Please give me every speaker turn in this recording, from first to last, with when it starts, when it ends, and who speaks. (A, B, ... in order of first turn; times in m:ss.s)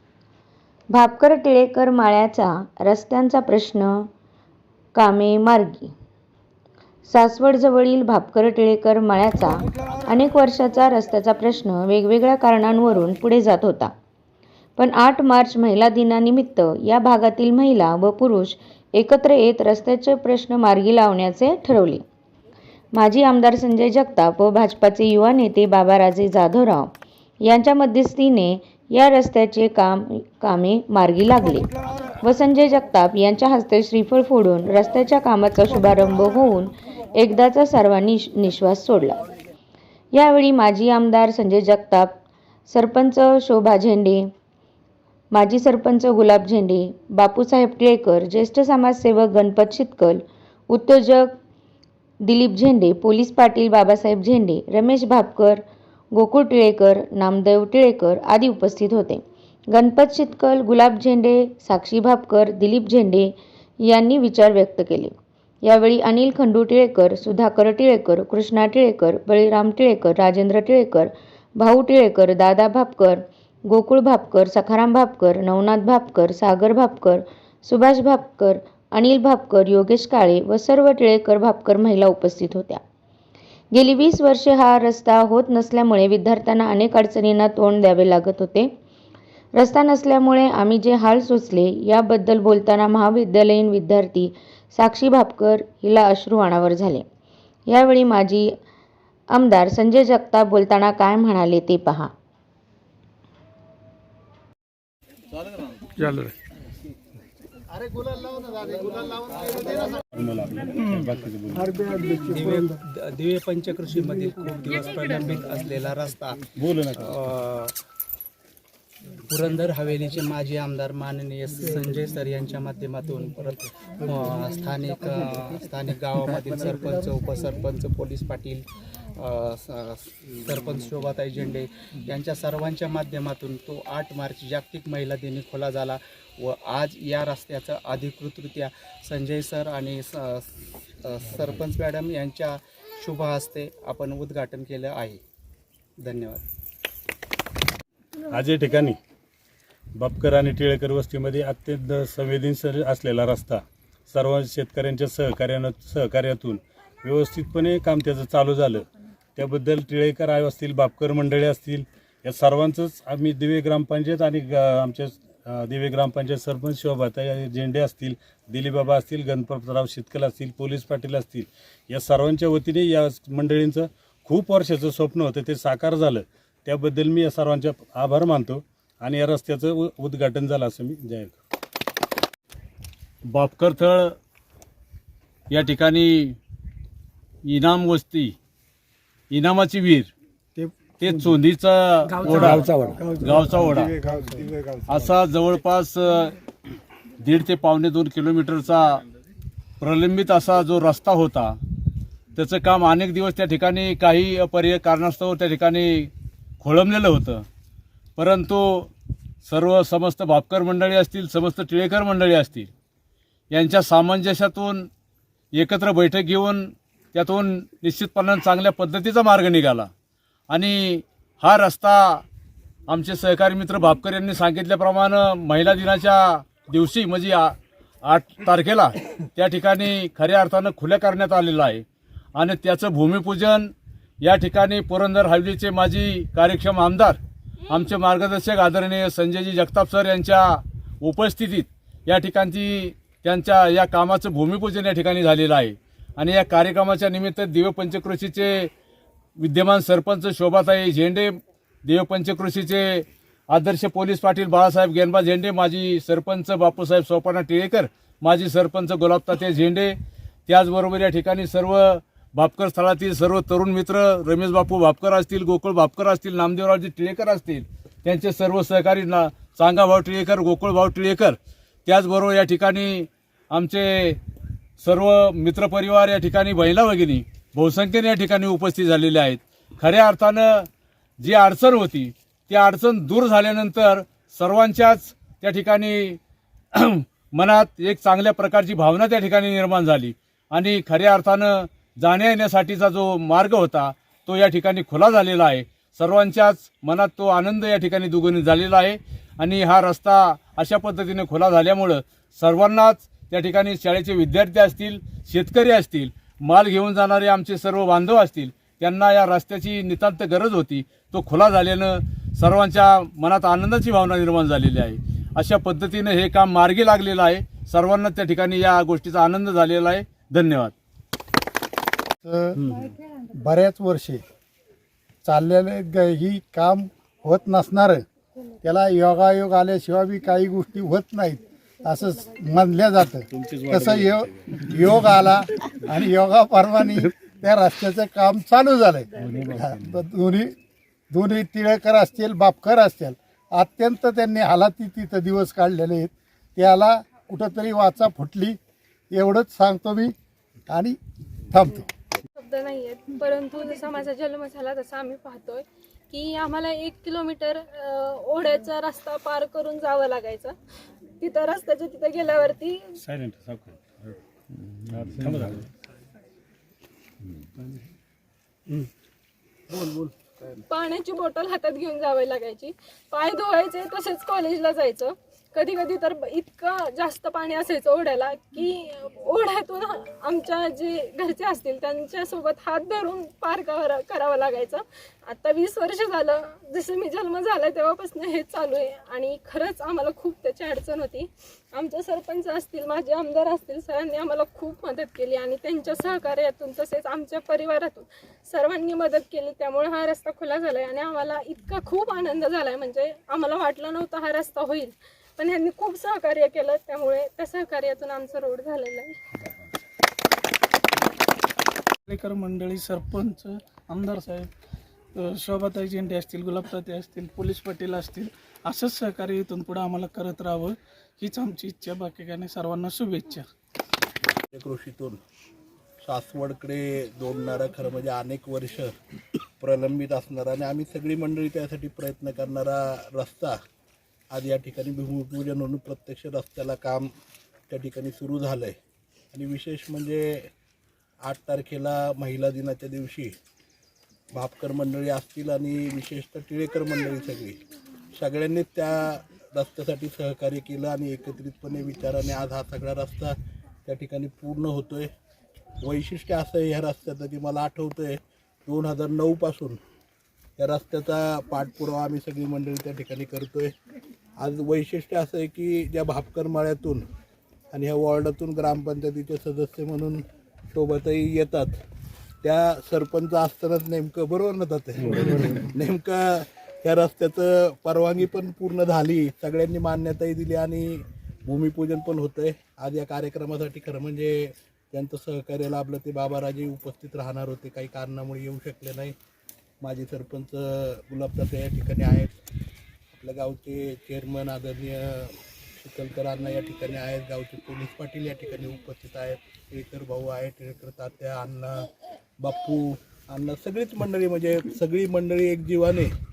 0:00.9-0:04.1 A
0:05.0-0:05.9 A
0:07.1-0:13.9 A
0:14.8-0:22.0 A
0:22.9-0:31.7 A
0:32.2-0:39.2 A
0:40.1-0:44.3 A
0:45.3-0:51.4 A
0:52.2-0:55.6 A
0:56.1-1:22.8 A
1:23.7-1:28.7 A
1:29.6-1:37.0 A
1:37.7-1:38.5 A
1:39.3-1:42.1 A
1:46.0-1:46.3 B
1:47.7-1:50.0 C
1:49.4-1:49.8 D
1:50.1-1:51.7 E
1:50.8-1:51.1 D
1:51.7-1:52.4 C
1:51.9-1:57.8 D
1:56.6-1:57.1 E
1:59.3-2:25.2 D
2:26.0-2:26.4 D
2:28.3-2:29.0 E
2:30.0-3:01.4 E
3:03.3-3:04.2 F
3:05.5-3:06.4 F
3:07.4-3:08.4 F
3:09.3-3:10.1 F
3:10.6-3:11.1 C
3:11.0-3:14.0 F
3:12.2-3:15.0 C
3:14.9-3:16.4 F
3:17.2-3:19.0 F
3:19.8-3:21.6 F
3:22.4-3:27.4 F
3:28.2-3:28.9 F
3:29.4-3:32.7 F
3:33.5-3:34.9 F
3:35.5-3:39.9 F
3:40.5-3:42.2 F
3:42.9-3:51.8 F
3:52.4-4:08.7 F
4:09.4-4:20.0 F
4:20.5-4:34.2 F
4:34.8-4:40.7 F
4:41.2-4:46.2 F
4:46.8-5:20.7 F
5:22.2-5:22.6 C
5:23.3-5:24.2 C
5:25.2-5:28.0 C
5:28.6-5:40.5 C
5:33.8-5:34.2 E
5:41.1-5:48.6 C
5:49.1-5:50.1 C
5:50.7-5:51.0 C
5:51.5-5:51.9 C
5:52.4-6:00.6 G
6:01.2-6:02.9 G
6:03.0-6:04.1 E
6:04.9-6:05.6 E
6:09.7-6:10.6 H
6:10.7-6:49.2 G
6:52.1-6:54.5 B
6:55.2-7:03.5 B
7:04.5-7:05.2 H
7:06.0-7:08.9 H
7:09.6-7:13.6 H
7:14.3-7:17.1 H
7:17.7-7:18.8 H
7:19.3-7:20.5 H
7:21.2-7:23.3 H
7:24.3-7:27.6 H
7:28.1-7:35.1 H
7:35.8-7:39.8 H
7:40.6-7:43.8 H
7:44.4-7:47.1 H
7:47.7-7:51.8 H
7:52.4-8:09.2 H
8:09.8-8:12.4 H
8:13.1-8:26.1 H